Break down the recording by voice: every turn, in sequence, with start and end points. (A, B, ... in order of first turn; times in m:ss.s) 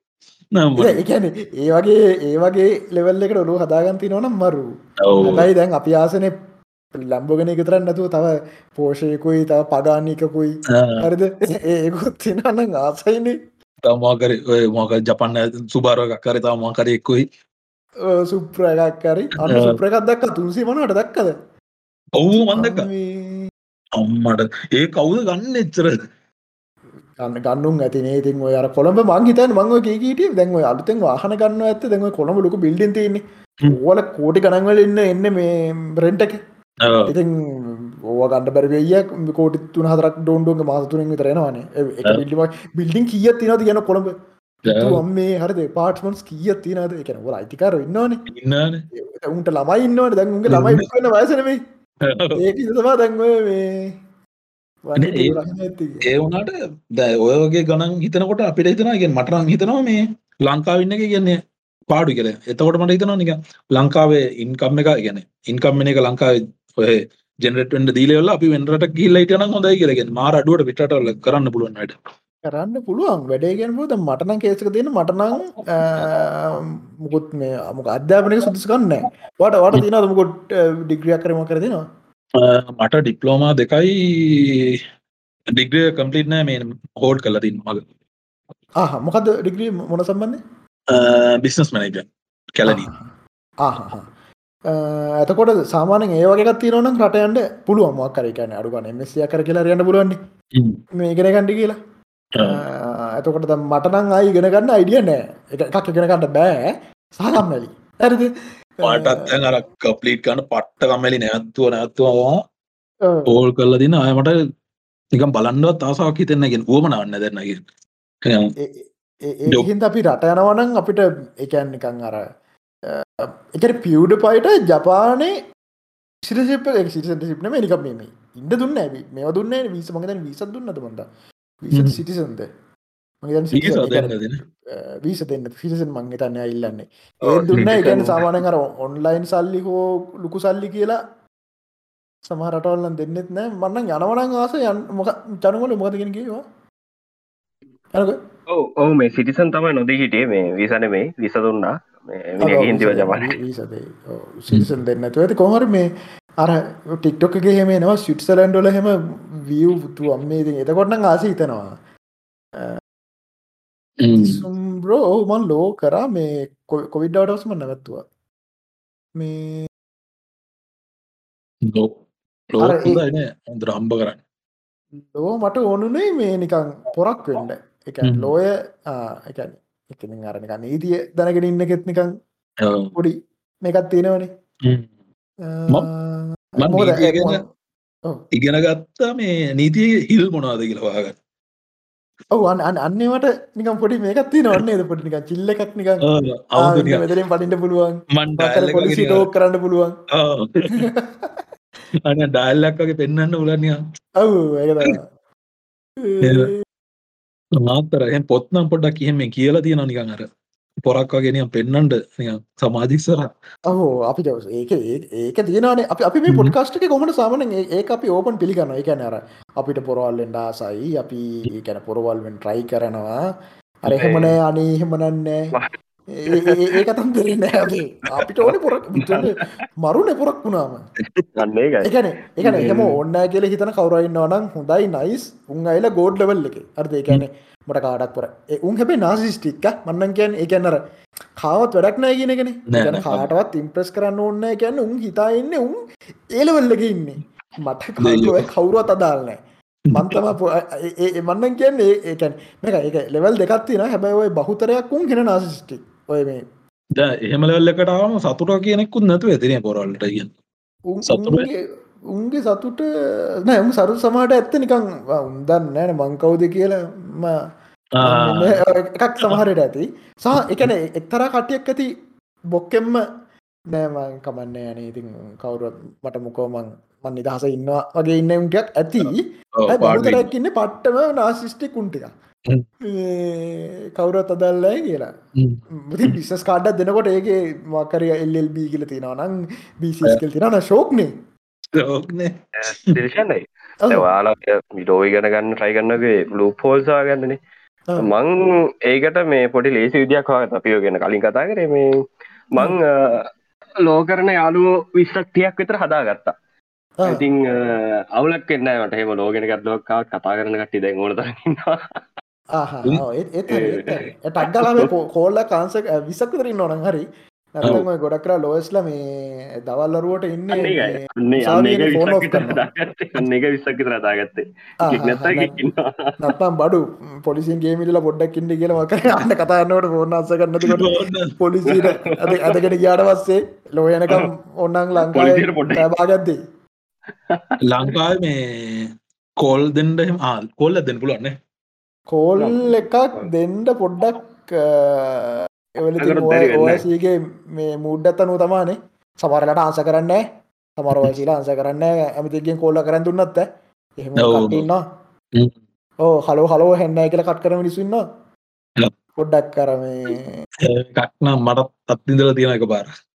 0:00.6-0:01.0 A
0:00.8-0:04.7 B
0:05.0-0:05.5 A
0:05.2-0:06.3 B
0:06.9-0:13.4 B
0:10.7-0:11.1 A
0:13.8-0:17.2 A
0:18.1-0:21.3 B
0:19.4-0:19.8 A
0:22.2-0:22.9 A
0:22.5-0:23.5 B
0:24.0-0:26.0 A
0:27.2-0:36.4 B
0:36.8-0:37.1 A
0:37.1-0:44.1 B
0:44.6-0:45.0 A
0:44.6-0:48.2 B
0:48.3-0:48.8 A
0:49.1-0:51.6 B
0:50.5-0:50.9 A
0:52.0-0:52.4 A
0:52.4-0:53.9 B
0:54.8-0:56.0 B
0:55.0-0:55.4 A
0:56.0-1:01.4 A
1:01.9-1:12.0 A
1:12.4-1:21.8 B
1:22.4-1:24.8 A
1:25.5-1:27.8 A
1:28.8-1:30.4 B
1:30.9-1:32.9 A
1:32.6-1:33.1 B
1:33.6-1:34.1 B
1:34.7-1:40.2 B
1:41.0-1:41.8 B
1:42.3-1:42.6 A
1:42.4-1:49.4 B
1:48.8-1:52.4 A
1:53.0-1:53.3 B
1:53.3-1:54.4 A
1:55.1-1:57.6 A
1:58.2-1:58.5 A
1:58.6-2:02.2 B
2:02.9-2:05.3 B
2:06.2-2:11.1 B
2:11.6-2:12.5 B
2:11.7-2:12.0 A
2:13.2-2:14.1 B
2:13.5-2:14.4 A
2:14.7-2:21.0 B
2:17.2-2:18.2 C
2:22.2-2:26.4 B
2:28.5-2:33.3 C
2:32.4-2:35.9 B
2:36.4-2:41.8 B
2:42.6-2:42.8 B
2:44.0-2:44.4 A
2:44.1-2:48.0 B
2:49.2-2:49.7 B
2:51.6-2:52.0 A
2:52.5-2:54.2 A
2:52.6-2:53.0 B
2:55.0-3:02.1 B
2:58.0-2:58.3 A
3:02.6-3:02.9 A
3:02.9-3:04.3 B
3:05.4-3:07.4 B
3:06.6-3:07.4 A
3:08.3-3:11.2 A
3:12.3-3:16.0 B
3:16.0-3:17.1 A
3:16.6-3:20.0 B
3:18.1-3:19.3 A
3:20.1-3:20.9 A
3:20.7-3:21.4 B
3:22.1-3:23.8 A
3:24.2-3:25.0 B
3:26.0-3:26.6 B
3:26.2-3:26.5 A
3:27.6-3:30.2 A
3:30.8-3:33.3 A
3:33.7-3:43.2 B
3:36.3-3:36.5 A
3:43.8-3:45.5 B
3:43.9-3:44.3 C
3:46.2-3:50.8 B
3:46.3-3:46.8 C
3:48.2-3:49.4 C
3:51.3-3:52.9 C
3:51.8-4:00.8 B
4:01.4-4:05.8 B
4:02.7-4:03.3 A
4:06.3-4:09.4 B
4:08.0-4:08.4 A
4:09.9-4:10.2 A
4:09.9-4:16.4 B
4:17.0-4:20.3 A
4:20.9-4:21.6 B
4:21.1-4:21.5 A
4:22.1-4:22.8 B
4:23.4-4:27.4 B
4:28.0-4:28.6 A
4:28.0-4:31.9 B
4:30.4-4:30.7 A
4:32.5-4:33.0 B
4:33.7-4:42.1 B
4:39.0-4:40.3 A
4:42.8-4:45.1 B
4:45.4-4:46.2 A
4:45.8-4:51.1 B
4:51.7-4:53.0 A
4:52.6-4:57.4 C
4:58.0-5:02.0 C
5:02.5-5:03.3 C
5:03.8-5:06.3 C
5:07.0-5:07.2 B
5:07.0-5:11.8 C
5:12.5-5:22.6 B
5:13.5-5:14.9 C
5:20.5-5:26.2 C
5:24.8-5:25.6 B
5:26.2-5:36.4 B
5:30.6-5:31.3 A
5:31.6-5:32.6 C
5:35.0-5:35.8 C
5:37.3-5:37.9 C
5:37.6-5:41.3 A
5:42.1-5:50.2 B
5:42.4-5:43.3 C
5:46.0-5:46.8 C
5:50.8-5:54.8 B
5:54.2-5:54.6 A
5:56.0-5:58.0 B
5:59.2-6:00.4 B
6:00.6-6:02.9 A